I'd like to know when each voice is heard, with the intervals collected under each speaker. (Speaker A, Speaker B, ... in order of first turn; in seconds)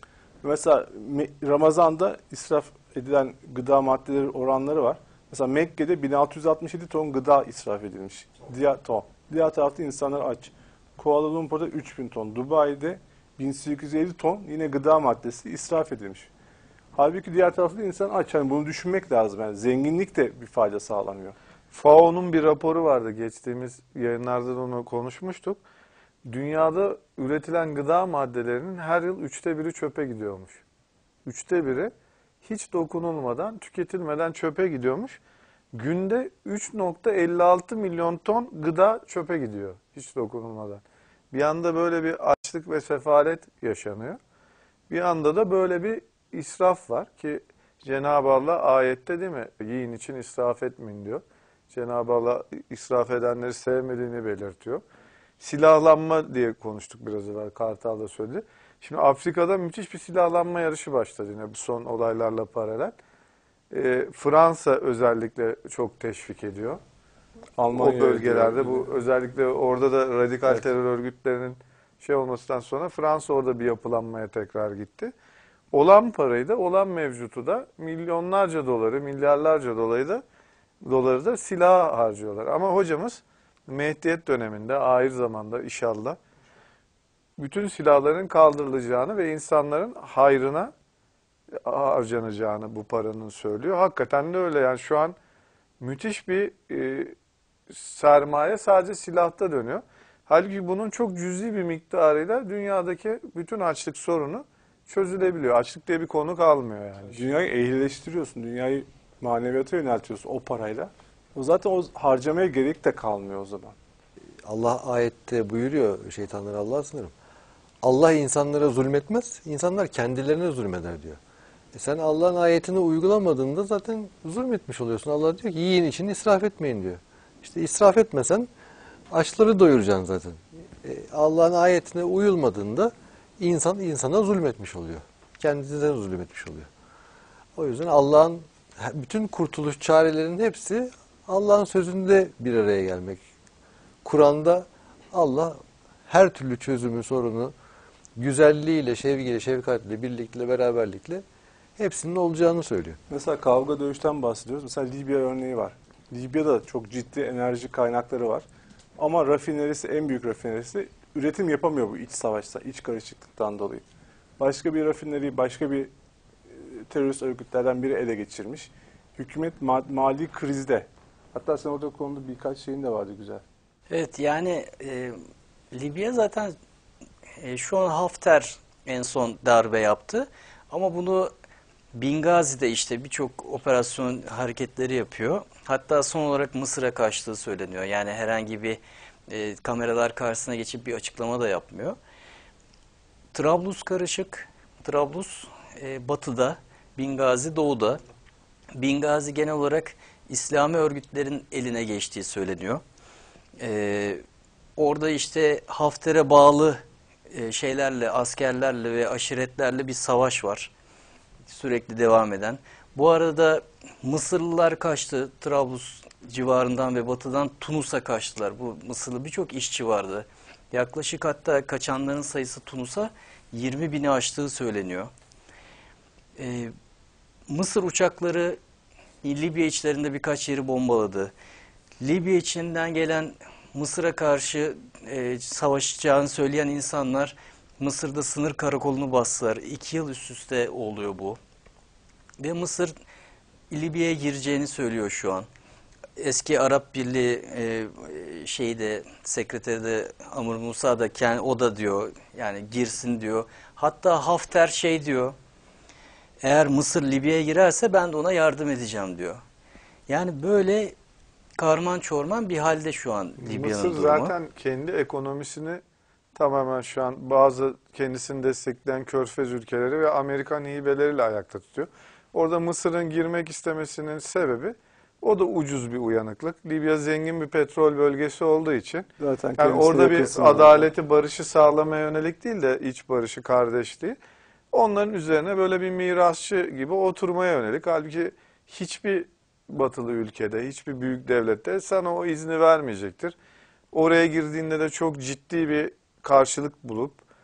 Speaker A: 0.4-16.3, 16.9-21.4, 67.6-68.9, 107.1-113.7, 153.1-158.4, 159.0-163.8, 164.4-165.9, 166.5-173.4, 279.2-280.9
Speaker B: 21.7-25.6, 26.2-30.6, 31.2-31.9, 32.4-35.2, 35.7-44.2, 44.9-54.8, 55.4-63.0, 63.7-66.8, 67.7-75.1, 75.7-80.2, 80.8-86.2, 87.4-90.7, 91.6-95.2, 95.8-97.1, 97.7-107.2, 263.4-265.8, 266.3-284.2, 284.7-293.4, 293.9-297.2
Speaker C: 114.4-117.1, 117.8-121.2, 121.7-128.5, 129.1-136.7, 137.6-143.2, 144.0-147.5, 148.2-151.2, 151.8-153.0
Speaker D: 173.9-175.2, 175.7-176.6, 177.4-181.3, 181.9-192.0, 193.3-198.0, 198.7-202.8, 203.6-204.2, 204.8-210.7, 211.5-225.1, 226.4-226.7, 227.5-228.6, 229.2-231.3, 232.0-241.4, 242.4-242.9, 243.7-245.5, 246.2-255.3, 256.4-259.4, 260.1-260.9, 261.6-264.3